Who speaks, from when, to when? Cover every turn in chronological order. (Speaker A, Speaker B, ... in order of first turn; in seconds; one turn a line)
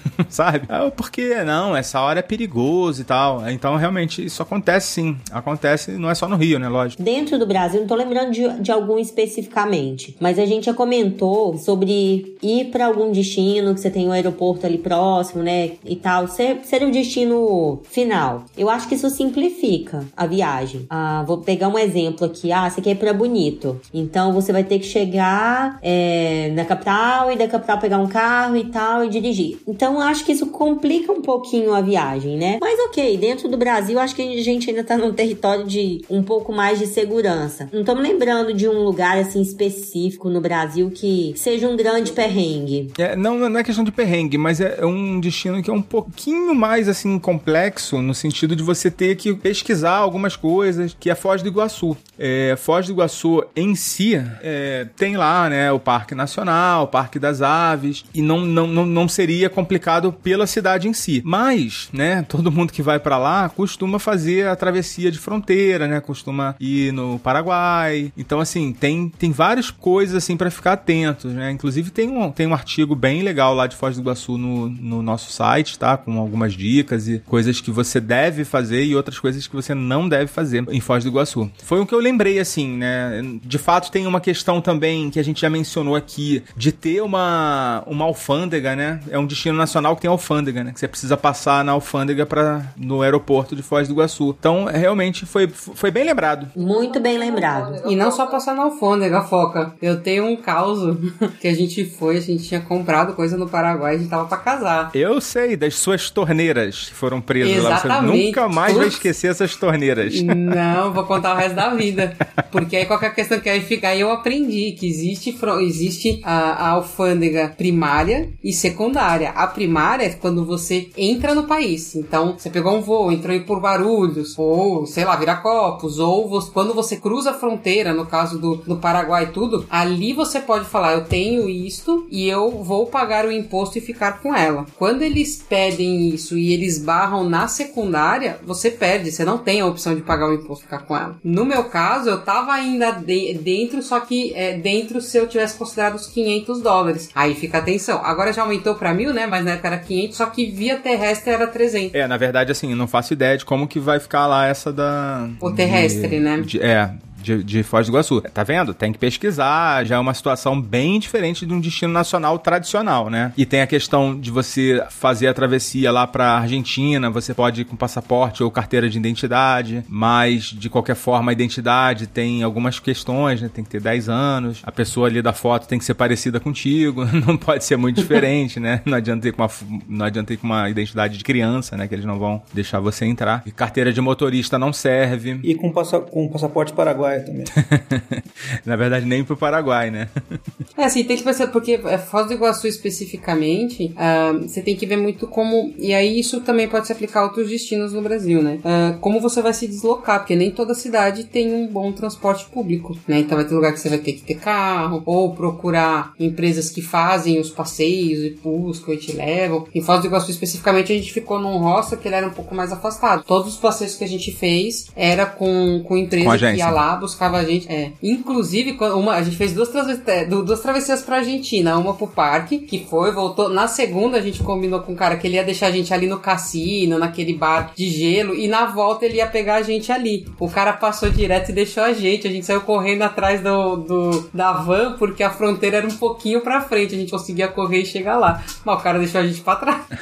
Speaker A: 0.3-7.0
Speaker B: 7.0-42.9
Speaker A: 43.0-96.5
Speaker B: 96.5-97.8
Speaker C: 97.8-104.9
Speaker A: 104.9-110.5
Speaker C: 107.4-109.0
Speaker C: 110.0-151.9
Speaker A: 151.9-185.4
Speaker C: 155.4-156.5
Speaker D: 185.4-187.5
Speaker A: 187.6-190.4
Speaker C: 190.8-239.9
Speaker A: 216.2-216.8